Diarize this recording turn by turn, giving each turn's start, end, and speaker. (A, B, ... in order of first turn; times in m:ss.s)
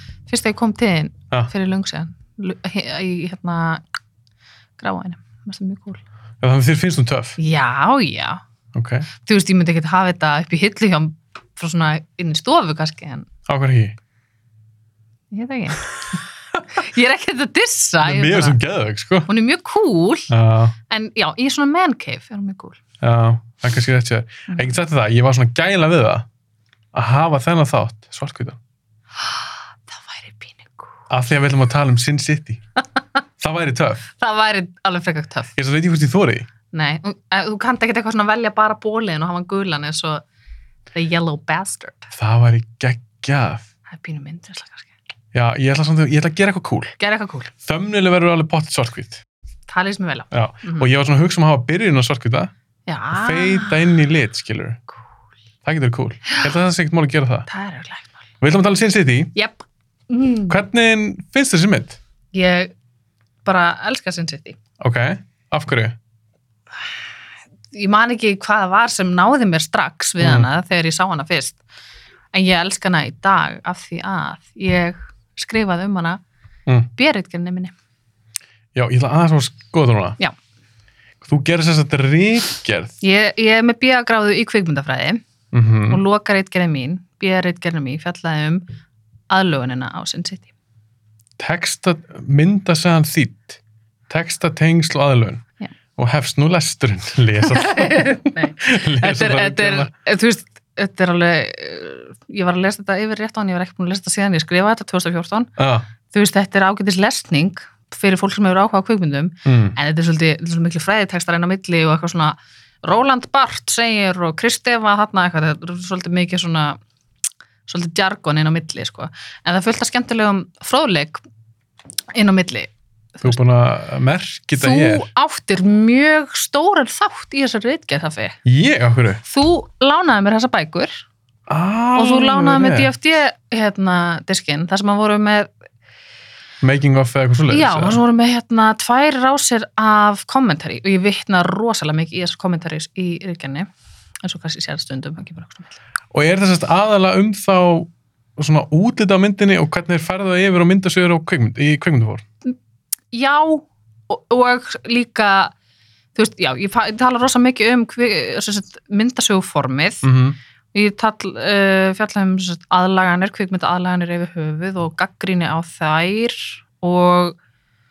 0:00.3-0:03.8 A
0:04.8-0:06.0 A
0:06.4-0:07.4 B
0:07.4-0:08.4 A
0:08.7-0:09.1 B
0:09.2-0:13.3 A
0:13.5-0:14.0 B
0:15.3-0:18.6 A
0:18.0-0:19.3 B
0:19.3-0:20.3 A
0:20.3-0:20.7 B
0:20.9-0:22.8 A
0:23.0-0:26.3 B
0:24.5-0:24.7 A
0:26.9-0:28.6 B
0:29.9-0:31.0 A
0:31.1-0:32.6 B
0:33.4-0:34.0 B
0:34.2-0:35.5 A
0:35.5-0:36.5 B
0:36.7-0:40.2 A
0:40.9-0:42.1 A
0:42.2-0:43.6 B
0:43.9-0:44.9 A
0:45.3-0:47.0 B
0:47.0-0:47.5 A
0:47.6-0:49.2 B
0:49.7-0:50.9 A
0:50.3-0:52.5 B
0:52.9-0:53.9 A
0:53.1-0:54.8 B
0:55.6-0:57.5 B
0:57.5-0:58.2 A
0:58.4-0:59.3 B
0:59.4-1:00.6 A
1:00.5-1:02.0 B
1:02.3-1:02.7 A
1:03.4-1:04.6 A
1:04.8-1:06.0 B
1:07.7-1:11.6 A
1:10.2-1:10.5 B
1:12.3-1:16.2 A
1:16.9-1:17.7 A
1:18.8-1:20.2 B
1:21.2-1:22.9 B
1:23.0-1:25.2 A
1:25.5-1:26.0 B
1:25.9-1:28.6 A
1:29.3-1:30.5 A
1:31.4-1:35.4 B
1:36.0-1:39.9 B
1:37.4-1:45.5 A
1:45.6-1:45.9 B
1:46.1-1:56.8 A
1:49.4-1:49.8 B
1:57.7-2:01.2 A
2:02.1-2:03.4 A
2:03.2-2:05.1 B
2:04.5-2:08.4 A
2:08.4-2:09.2 B
2:09.2-2:11.0 A
2:11.5-2:12.9 B
2:12.0-2:15.5 A
2:16.6-2:18.0 B
2:17.5-2:23.7 A
2:24.2-2:25.8 A
2:26.1-2:32.2 B
2:33.1-2:35.5 A
2:36.1-2:40.1 A
2:40.0-2:40.4 B
2:40.7-2:47.4 A